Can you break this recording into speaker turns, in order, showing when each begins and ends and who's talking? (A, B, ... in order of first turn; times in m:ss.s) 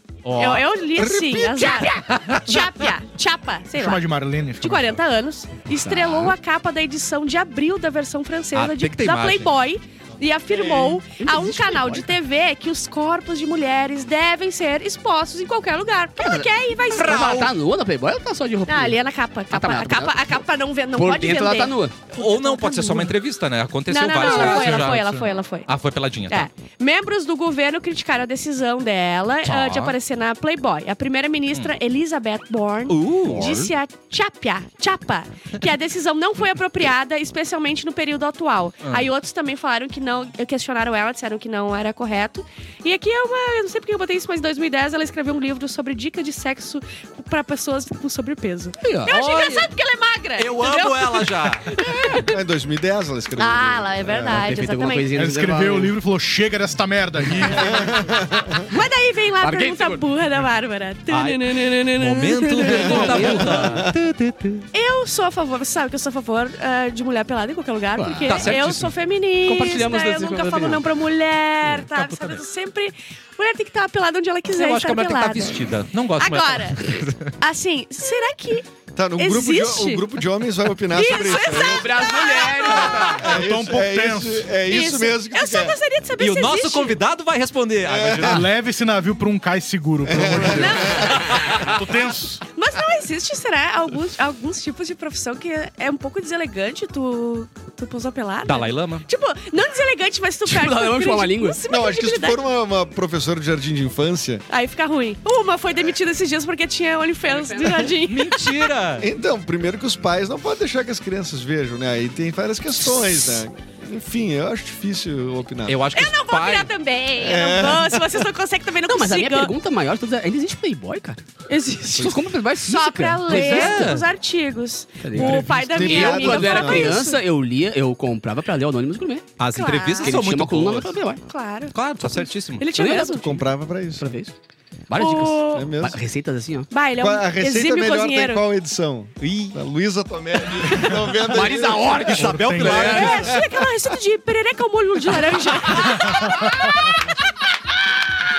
0:00.2-0:02.7 A
0:00.4-0:04.0 B
0:03.7-0:05.0 C
0:04.6-0:17.3 B
0:05.7-0:06.4 D
0:08.5-0:09.5 A
0:10.5-0:12.1 D
0:16.2-0:19.0 D
0:16.9-0:17.5 A
0:18.7-0:23.1 B
0:19.5-0:20.2 D
0:20.9-0:21.9 D
0:22.1-0:25.0 A
0:23.9-0:25.7 B
0:24.2-0:25.3 C
0:25.6-0:26.5 A
0:26.3-0:52.4 B
0:29.4-0:30.0 A
0:32.9-0:33.7 A
0:38.8-0:39.1 A
0:48.8-0:49.6 D
0:49.1-0:49.6 A
0:50.4-0:51.8 A
0:52.1-0:54.5 E
0:53.4-0:55.1 B
0:54.2-0:55.9 D
0:55.1-0:58.1 C
0:57.6-0:58.6 E
0:58.6-1:03.4 B
0:59.4-1:00.0 D
1:01.1-1:04.7 A
1:02.7-1:03.9 D
1:02.9-1:03.9 E
1:04.7-1:15.7 B
1:08.0-1:08.6 D
1:08.3-1:08.9 A
1:09.4-1:10.8 D
1:11.7-1:12.4 A
1:14.5-1:17.4 A
1:16.2-1:18.6 B
1:18.9-1:21.9 E
1:19.2-1:20.0 B
1:20.9-1:23.3 B
1:21.1-1:23.2 D
1:22.7-1:25.8 E
1:23.2-1:24.5 C
1:24.7-1:27.0 B
1:26.2-1:28.5 A
1:27.8-1:28.4 E
1:28.2-1:32.4 C
1:30.0-1:31.2 E
1:30.4-1:31.7 B
1:30.9-1:31.6 A
1:32.5-1:42.4 B
1:38.4-1:39.1 A
1:40.4-1:41.6 D
1:41.7-1:44.4 E
1:44.5-1:48.7 B
1:47.2-1:47.9 D
1:47.9-1:49.1 A
1:49.0-1:55.8 E
1:55.6-1:56.7 A
1:55.9-1:59.5 B
1:57.2-1:58.2 E
1:58.9-2:01.2 D
2:01.5-2:07.2 B
2:01.9-2:03.9 D
2:03.3-2:04.1 A
2:05.0-2:09.2 D
2:05.2-2:07.0 E
2:09.4-2:10.9 A
2:09.5-2:10.2 B
2:10.0-2:11.2 D
2:11.2-2:13.4 B
2:11.7-2:12.7 A
2:12.7-2:13.4 D
2:13.0-2:14.1 E
2:14.0-2:14.3 D
2:14.9-2:16.7 D
2:15.0-2:15.7 B
2:15.5-2:16.0 E
2:16.7-2:18.4 B
2:17.0-2:22.1 E
2:19.2-2:19.6 A
2:21.2-2:23.2 D
2:22.0-2:23.4 A
2:22.1-2:23.2 C
2:22.7-2:27.1 B
2:23.3-2:23.6 E